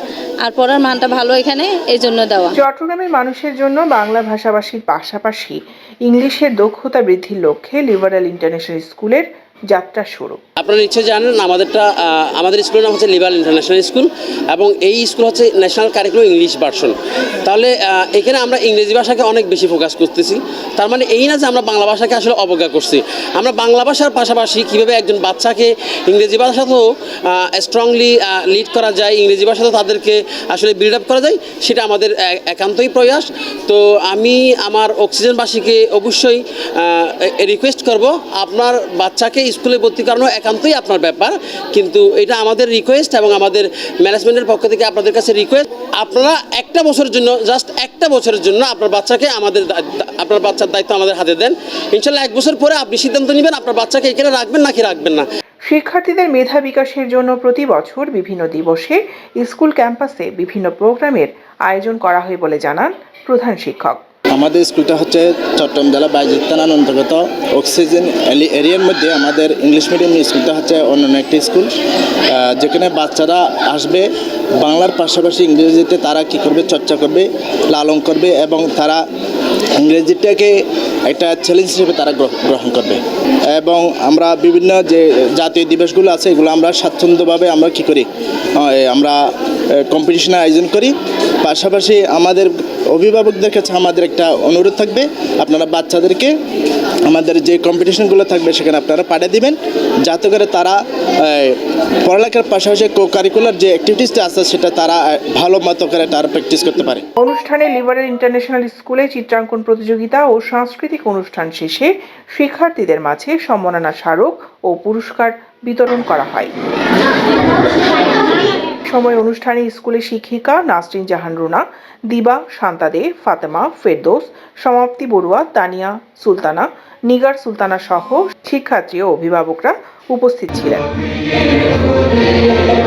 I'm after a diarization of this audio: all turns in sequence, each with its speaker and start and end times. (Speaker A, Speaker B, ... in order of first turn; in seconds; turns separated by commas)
Speaker A: 0.4-2.5, Speaker B: 2.5-10.4, Speaker C: 10.6-55.3, Speaker B: 55.7-64.0, Speaker D: 64.3-71.7, Speaker D: 72.5-74.1, Speaker D: 74.6-79.0, Speaker D: 79.8-80.5, Speaker D: 81.1-83.0, Speaker D: 83.6-88.1, Speaker D: 88.6-89.2, Speaker D: 89.9-96.3, Speaker D: 97.1-107.0, Speaker B: 107.2-116.5, Speaker B: 118.9-130.9